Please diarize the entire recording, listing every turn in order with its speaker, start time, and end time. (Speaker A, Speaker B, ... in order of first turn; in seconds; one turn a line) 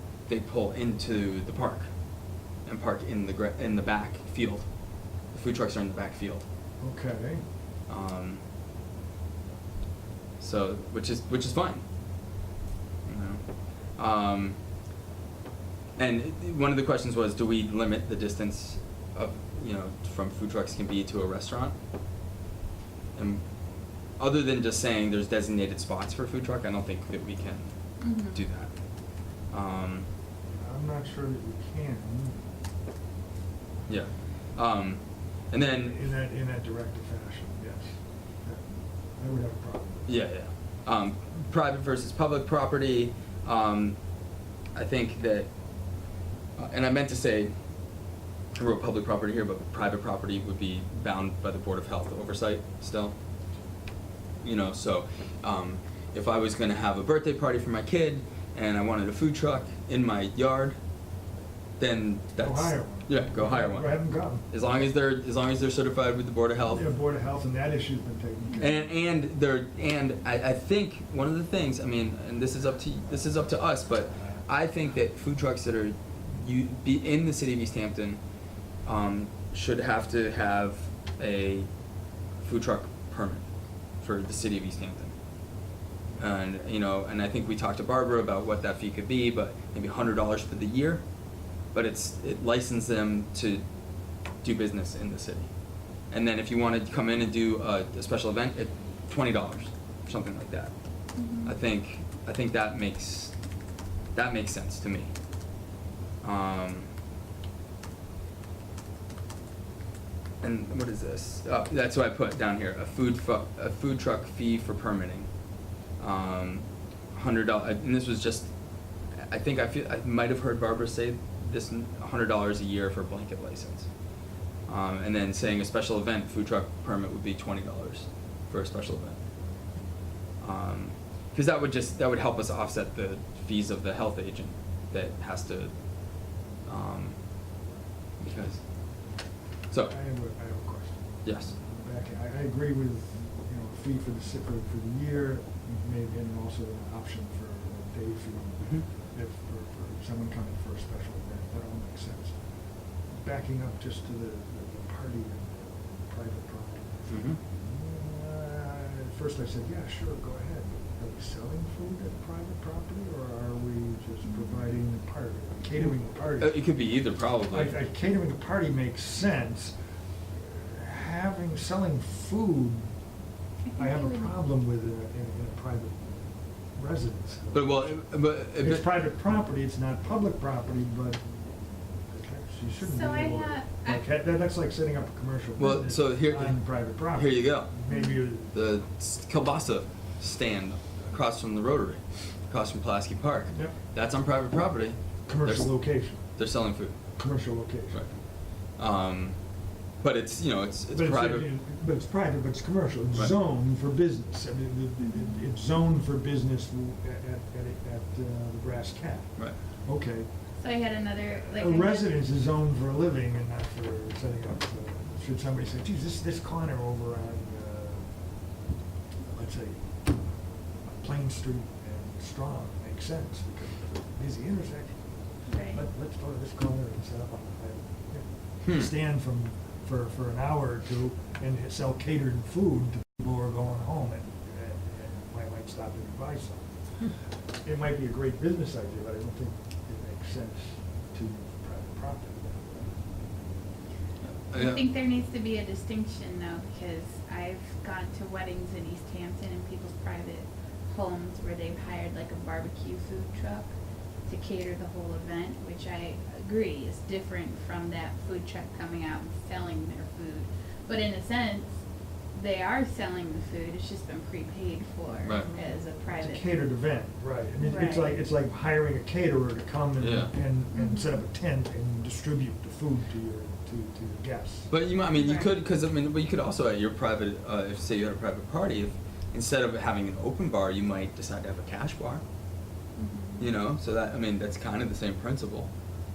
Speaker A: 0.3-1.9
Speaker A: 2.6-4.7
Speaker A: 5.3-6.4
Speaker B: 6.8-7.4
Speaker A: 7.9-8.4
Speaker A: 10.4-11.8
Speaker A: 13.0-14.6
Speaker A: 16.0-21.7
Speaker A: 23.1-23.4
Speaker A: 24.2-28.7
Speaker C: 28.0-28.4
Speaker A: 29.5-30.1
Speaker B: 30.5-32.4
Speaker A: 33.9-36.0
Speaker B: 35.6-40.2
Speaker A: 40.1-44.0
Speaker A: 44.7-45.5
Speaker A: 46.5-47.5
Speaker A: 48.5-53.1
Speaker A: 54.4-60.8
Speaker A: 61.8-66.9
Speaker B: 62.4-64.5
Speaker B: 66.7-68.8
Speaker A: 68.6-78.2
Speaker A: 78.8-81.7
Speaker A: 82.4-83.5
Speaker A: 84.0-85.1
Speaker A: 86.2-91.0
Speaker A: 91.7-93.6
Speaker A: 94.4-95.5
Speaker A: 96.1-100.7
Speaker C: 101.2-101.5
Speaker A: 101.4-103.3
Speaker A: 104.1-105.1
Speaker A: 106.2-106.9
Speaker A: 110.4-115.3
Speaker A: 116.0-118.5
Speaker A: 119.1-123.9
Speaker A: 124.7-129.2
Speaker A: 130.4-135.7
Speaker A: 136.6-137.2
Speaker A: 138.2-138.6
Speaker A: 139.7-139.9
Speaker B: 139.8-152.4
Speaker A: 141.2-141.5
Speaker B: 153.1-166.6
Speaker A: 157.1-157.4
Speaker C: 164.2-164.5
Speaker A: 166.4-167.8
Speaker B: 167.5-169.7
Speaker B: 170.4-172.9
Speaker C: 173.7-174.3
Speaker B: 173.8-176.2
Speaker B: 176.7-177.9
Speaker A: 177.5-178.9
Speaker B: 178.5-181.4
Speaker B: 182.1-188.5
Speaker C: 182.8-184.1
Speaker A: 185.6-187.7
Speaker C: 187.9-188.2
Speaker A: 188.5-195.8
Speaker B: 195.2-196.2
Speaker A: 196.3-196.9
Speaker B: 197.2-198.1
Speaker A: 197.9-198.2
Speaker A: 198.8-199.4
Speaker A: 200.0-201.5
Speaker B: 200.9-210.3
Speaker C: 205.0-205.4
Speaker C: 210.6-212.1
Speaker B: 211.5-218.1
Speaker B: 219.2-219.8
Speaker B: 221.0-225.0
Speaker C: 225.5-225.8
Speaker B: 225.7-236.7
Speaker A: 228.6-228.9
Speaker B: 237.6-242.9
Speaker A: 244.2-244.9
Speaker C: 244.5-253.7
Speaker C: 254.2-261.8
Speaker C: 262.3-266.4
Speaker A: 265.2-265.5
Speaker B: 266.1-274.7
Speaker C: 267.6-268.1
Speaker A: 270.0-270.3
Speaker C: 270.7-271.1
Speaker A: 274.7-282.2
Speaker C: 275.1-275.5
Speaker C: 282.9-283.5
Speaker A: 283.4-285.7